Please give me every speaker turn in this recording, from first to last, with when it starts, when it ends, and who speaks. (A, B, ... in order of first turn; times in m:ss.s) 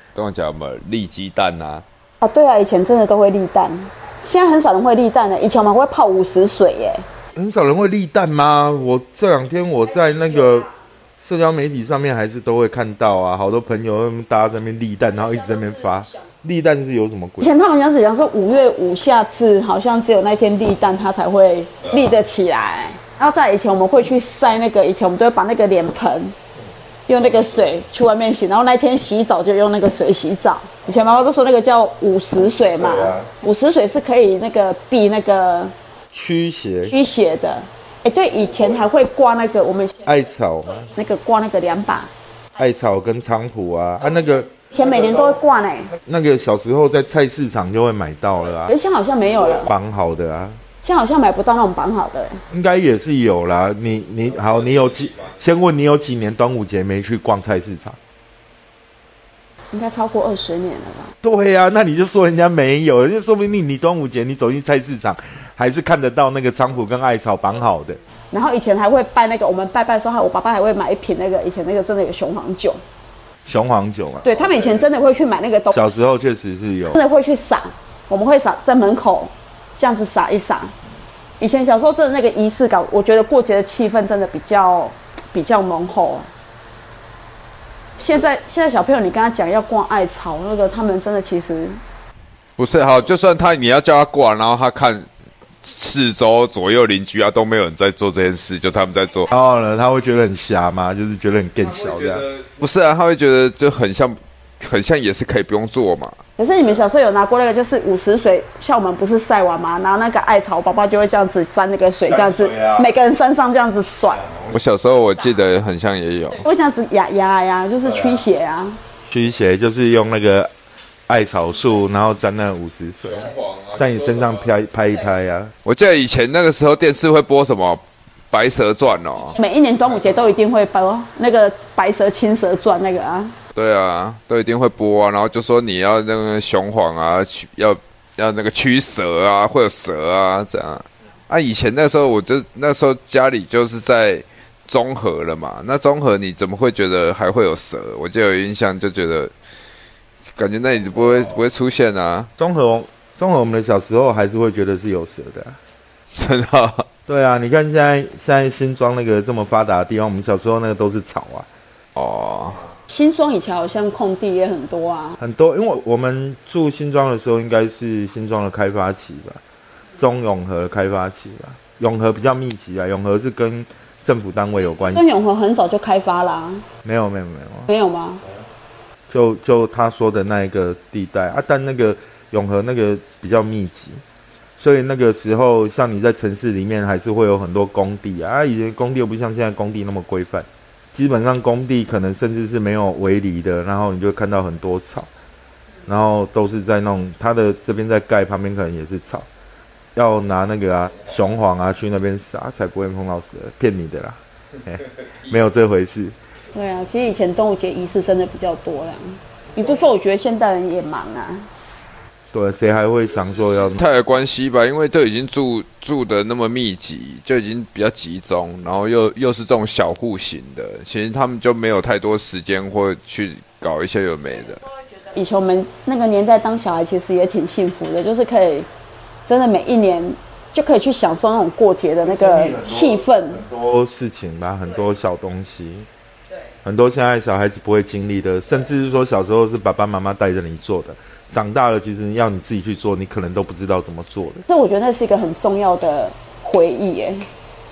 0:00.2-0:01.8 A
0:02.2-0:07.0 B
0:07.4-0:17.5 C
0:17.4-0:26.4 B
0:27.1-0:35.7 B
0:32.4-0:33.3 C
0:36.1-0:36.9 C
0:36.9-0:40.0 B
0:40.0-0:40.9 C
0:40.9-0:42.1 B
0:42.6-0:45.3 C
0:44.7-0:45.9 B
0:46.0-0:48.7 C
0:48.7-0:49.7 B
0:49.4-0:50.6 C
0:50.8-0:52.4 B
0:52.5-0:58.0 C
0:59.7-1:01.1 B
1:01.2-1:08.0 C
1:08.3-1:12.8 B
1:13.4-1:14.8 C
1:14.2-1:15.8 B
1:15.7-1:17.0 C
1:16.9-1:20.7 B
1:21.4-1:26.3 B
1:28.0-1:31.8 B
1:32.6-1:35.1 A
1:35.6-1:39.3 A
1:39.3-1:42.3 C
1:41.6-1:46.2 A
1:46.4-1:54.3 B
1:52.1-1:52.9 C
1:54.4-1:56.4 A
1:56.4-1:58.8 B
1:57.8-1:58.3 C
1:59.1-2:00.5 C
2:01.1-2:05.5 C
2:03.1-2:04.5 A
2:05.6-2:09.4 A
2:09.3-2:13.4 B
2:13.6-2:29.3 A
2:30.4-2:32.3 A
2:32.4-2:35.6 C
2:36.1-2:36.9 A
2:37.1-2:41.5 C
2:42.0-2:42.6 A
2:42.9-2:45.2 B
2:45.2-2:49.4 C
2:50.0-2:55.1 C
2:54.8-2:56.6 B
2:56.8-2:57.7 C
2:57.7-2:58.2 B
2:59.1-3:04.0 C
3:04.6-3:15.1 C
3:15.9-3:19.3 C
3:20.0-3:26.2 C
3:26.5-3:31.5 B
3:32.3-3:33.8 C
3:33.7-3:44.6 A
3:45.0-3:48.7 B
3:49.3-3:53.4 B
3:52.0-3:55.9 C
3:56.6-4:04.4 C
4:04.5-4:07.3 B